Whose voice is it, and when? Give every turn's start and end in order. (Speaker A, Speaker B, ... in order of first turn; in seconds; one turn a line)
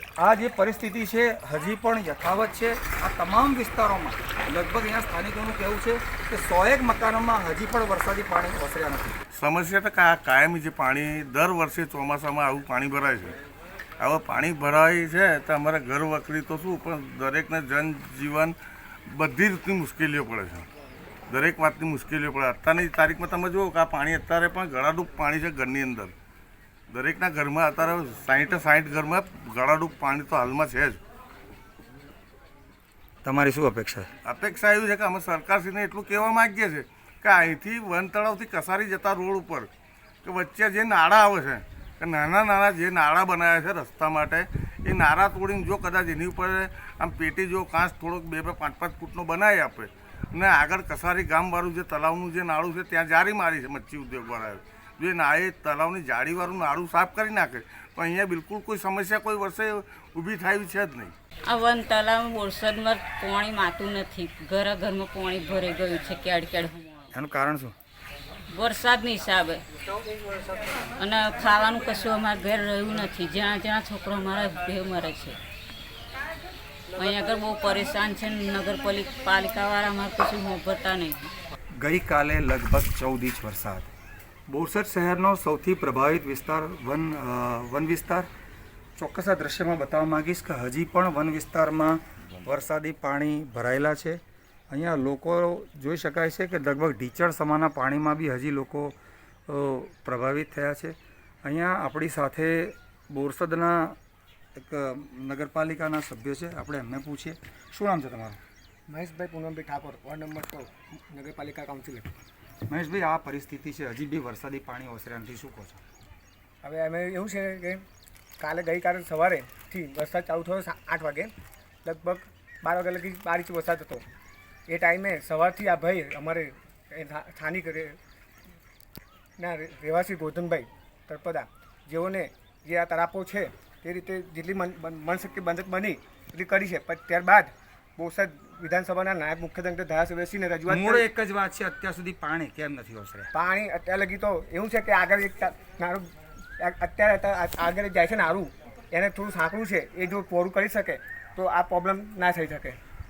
Speaker A: 0.2-9.2
Speaker B: 9.3-13.4
Speaker B: 14.0-18.5
Speaker B: 19.1-20.7
Speaker B: 21.3-26.1
Speaker B: 26.9-31.0
Speaker A: 33.2-34.1
Speaker B: 34.2-39.7
Speaker B: 40.2-61.1
Speaker C: 61.5-67.1
Speaker A: 67.1-67.7
Speaker C: 68.5-69.6
Speaker C: 71.0-75.4
Speaker C: 76.9-81.3
Speaker A: 81.8-83.9
Speaker A: 84.5-88.3
Speaker A: 89.0-99.0
Speaker A: 99.5-104.0
Speaker A: 104.5-108.4
Speaker D: 108.9-112.1
Speaker A: 112.7-115.8
Speaker D: 116.6-117.8
Speaker D: 118.4-121.3
Speaker D: 121.8-124.0
Speaker D: 124.7-128.0
Speaker D: 129.4-141.1
Speaker A: 140.7-143.3
Speaker D: 143.3-146.0
Speaker D: 146.6-152.8